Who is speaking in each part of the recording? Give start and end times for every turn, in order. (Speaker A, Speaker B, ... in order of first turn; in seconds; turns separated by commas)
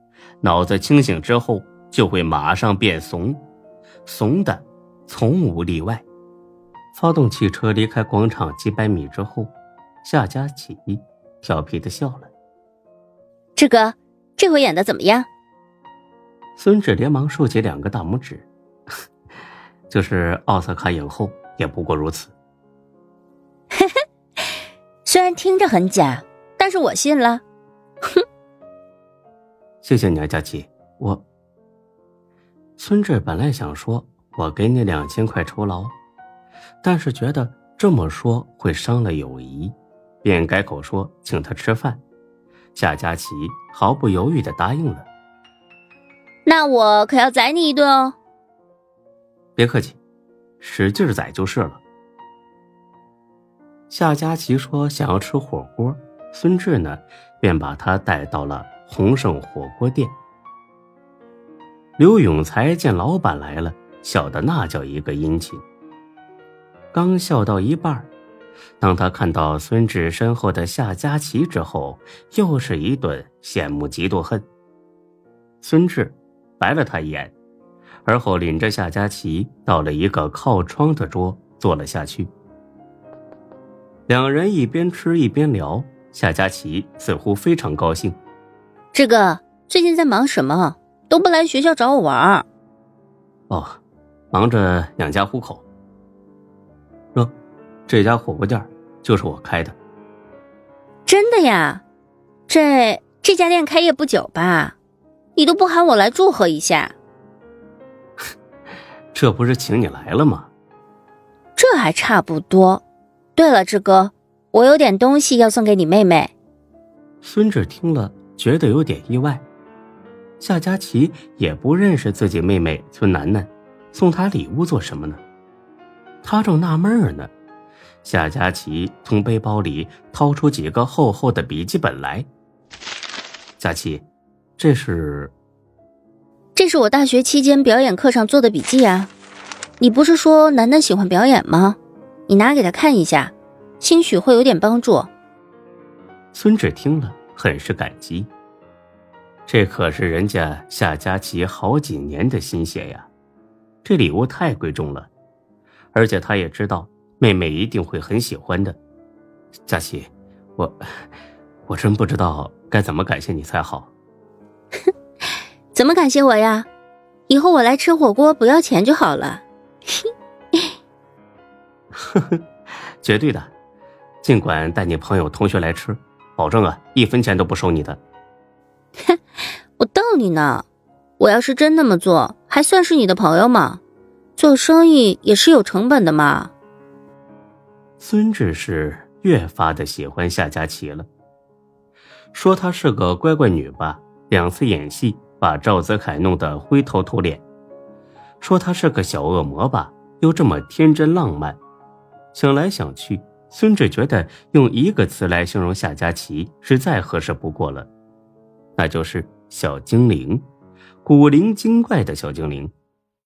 Speaker A: 0.4-3.4, Speaker A: 4.0-6.0, Speaker A: 6.9-9.5, Speaker A: 10.0-12.3, Speaker B: 13.6-15.3, Speaker A: 16.6-18.5, Speaker A: 19.9-22.3, Speaker B: 25.0-27.4, Speaker A: 29.8-31.2, Speaker A: 32.8-35.9, Speaker A: 36.8-42.0, Speaker A: 42.7-45.1, Speaker B: 46.5-48.1, Speaker A: 49.5-50.0, Speaker A: 50.6-51.8, Speaker A: 53.9-60.1, Speaker A: 62.0-65.6, Speaker A: 66.9-68.1, Speaker A: 68.8-74.4, Speaker A: 75.6-77.3, Speaker A: 78.0-82.3, Speaker A: 84.1-88.2, Speaker B: 88.9-92.4, Speaker A: 93.5-93.8, Speaker A: 94.3-95.6, Speaker A: 97.9-99.8, Speaker B: 101.1-101.8, Speaker B: 102.5-104.8, Speaker B: 105.3-106.9, Speaker A: 109.1-110.5, Speaker B: 111.6-112.8, Speaker B: 113.3-116.3, Speaker A: 117.2-119.4, Speaker A: 120.4-125.2, Speaker A: 126.2-127.3, Speaker A: 128.0-132.3, Speaker A: 133.6-134.0, Speaker A: 134.6-135.3, Speaker B: 136.6-139.1, Speaker B: 139.8-145.1, Speaker A: 146.3-148.3, Speaker A: 149.5-153.1, Speaker A: 153.8-155.1, Speaker A: 155.9-158.8, Speaker A: 159.7-161.0, Speaker A: 161.7-163.9, Speaker B: 165.7-166.7, Speaker B: 167.3-170.7, Speaker A: 171.9-172.4, Speaker A: 173.0-173.5, Speaker A: 174.2-178.0, Speaker B: 179.8-180.6, Speaker B: 181.2-183.8, Speaker B: 184.4-186.5, Speaker A: 188.0-191.1, Speaker A: 192.3-197.4, Speaker A: 198.4-201.6, Speaker A: 202.3-207.9, Speaker A: 208.8-210.4, Speaker A: 211.0-212.7